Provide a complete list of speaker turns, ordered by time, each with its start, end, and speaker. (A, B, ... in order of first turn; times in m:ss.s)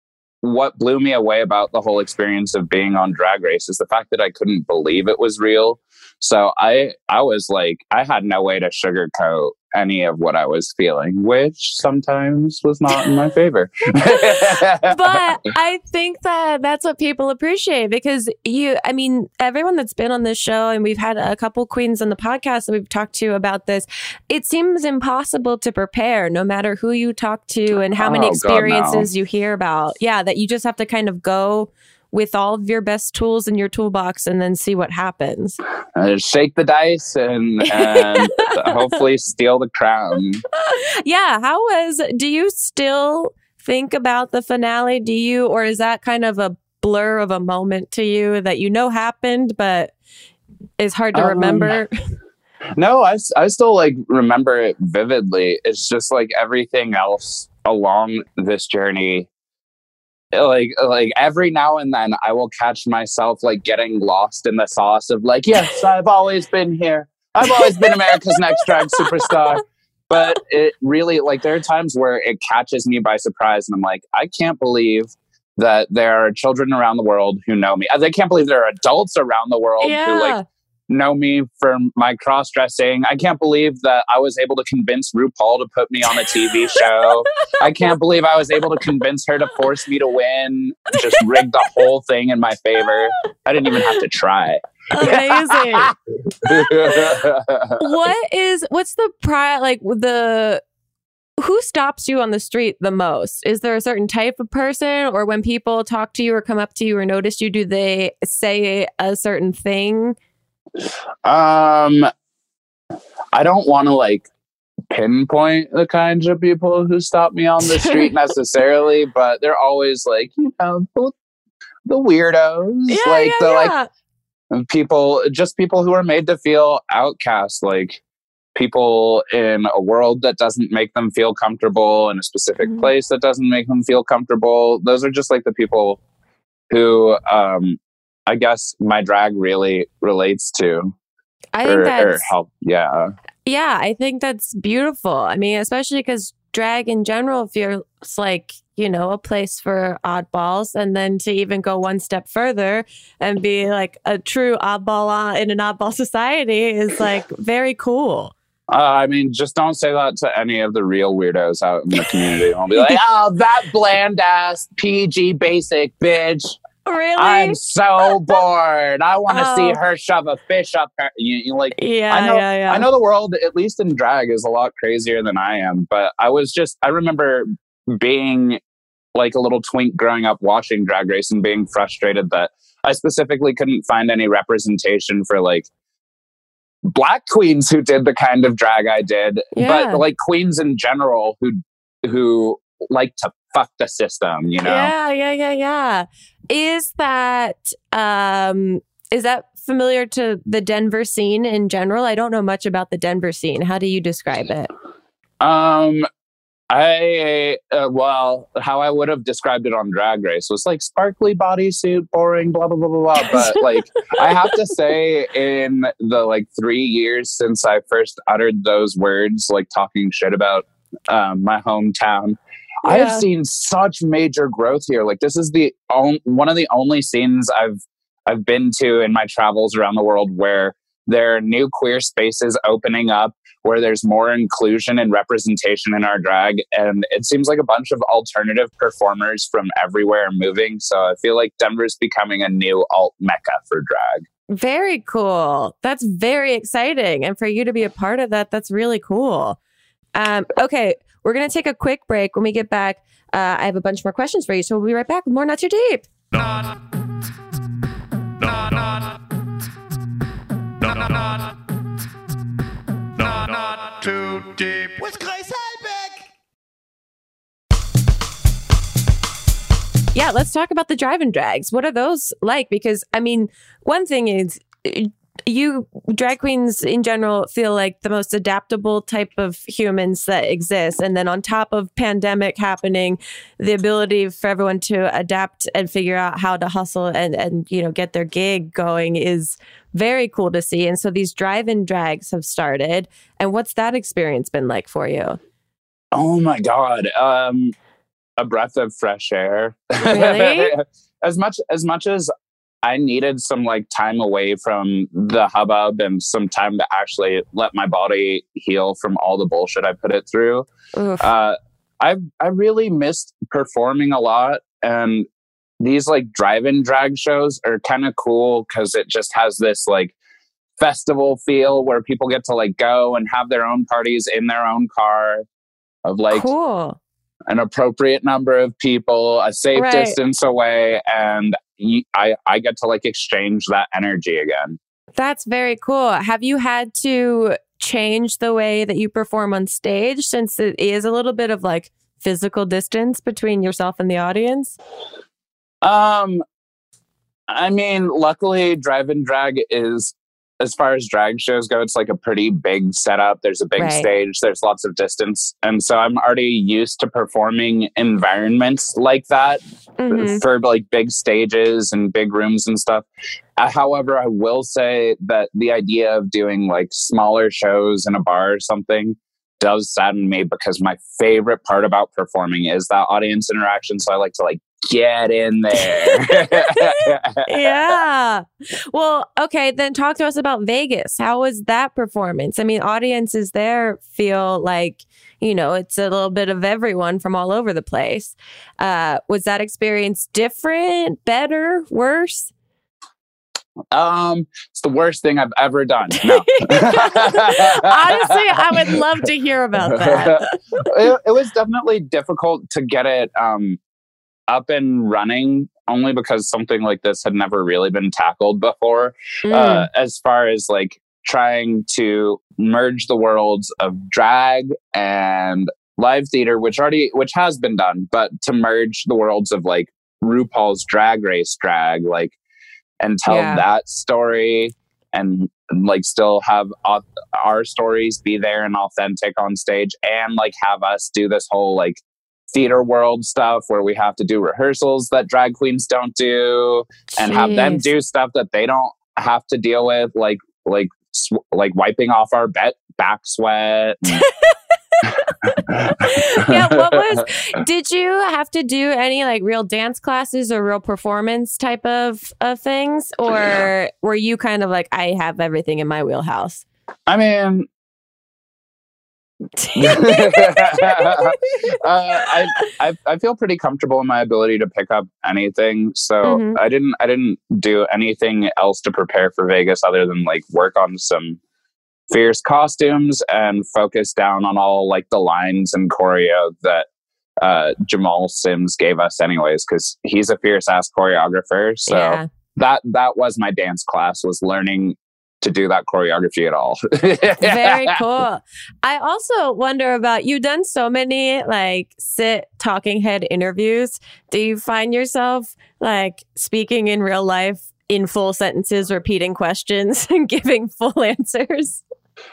0:00.4-0:15.2 A
0:14.0-0:35.6 B
0:28.0-0:29.1 A
0:35.9-0:40.4 A
0:37.6-0:38.8 B
0:40.5-0:49.9 B
0:50.8-0:51.9 B
0:51.1-0:51.8 A
0:52.8-0:59.3 A
1:00.3-1:20.3 A
1:07.4-1:09.4 B
1:19.8-1:20.4 B
1:20.9-1:37.9 A
1:26.7-1:27.1 B
1:31.1-1:31.4 B
1:34.9-1:37.2 B
1:37.8-1:40.6 B
1:41.4-1:50.2 B
1:51.2-1:52.1 A
1:53.3-1:54.3 A
1:54.9-2:01.1 A
1:57.6-1:58.1 B
2:01.8-2:03.7 A
2:02.9-2:03.9 B
2:04.5-2:08.0 A
2:08.5-2:16.0 A
2:12.6-2:12.9 B
2:16.7-2:20.9 A
2:21.5-2:22.3 B
2:21.6-2:23.1 A
2:23.4-2:38.3 B
2:38.7-2:46.6 A
2:46.8-2:47.6 B
2:47.2-2:58.6 A
2:49.3-2:49.8 B
2:51.8-2:52.9 B
2:59.1-3:05.7 A
3:06.9-3:14.9 A
3:09.5-3:10.0 B
3:14.6-3:24.7 B
3:25.4-3:26.0 A
3:26.7-4:04.2 A
3:33.2-3:33.6 B
3:42.8-3:43.2 B
4:04.5-4:09.6 B
4:10.1-4:16.0 B
4:16.3-4:16.8 C
4:18.4-4:19.2 C
4:20.8-4:21.6 C
4:23.1-4:26.2 C
4:30.1-4:55.4 B
4:56.1-4:57.7 A
4:58.4-5:02.3 A
5:00.0-5:00.7 B
5:02.8-5:10.7 A
5:11.0-5:11.3 B
5:11.2-5:15.3 A
5:15.8-5:20.1 A
5:20.8-5:25.4 A
5:26.0-5:26.5 A
5:26.3-5:27.0 B
5:27.5-5:34.8 A
5:29.7-5:30.2 B
5:35.1-5:44.7 B
5:45.8-5:46.4 A
5:47.5-6:03.0 A
5:53.8-5:54.1 B
6:00.0-6:00.4 B
6:03.6-6:18.0 A
6:15.8-6:32.5 B
6:33.9-6:39.2 A
6:36.2-6:40.5 B
6:39.8-6:43.8 A
6:44.5-7:02.4 A
6:49.5-6:49.9 B
7:03.0-7:24.2 A
7:03.3-7:03.6 B
7:17.1-7:17.9 B
7:24.1-7:36.6 B
7:25.0-7:27.2 A
7:37.1-7:37.7 A
7:39.6-7:41.6 B
7:39.8-7:51.4 A
7:46.2-7:46.6 B
7:52.1-7:56.9 A
7:57.4-8:08.0 A
8:01.9-8:02.2 B
8:07.4-8:21.8 B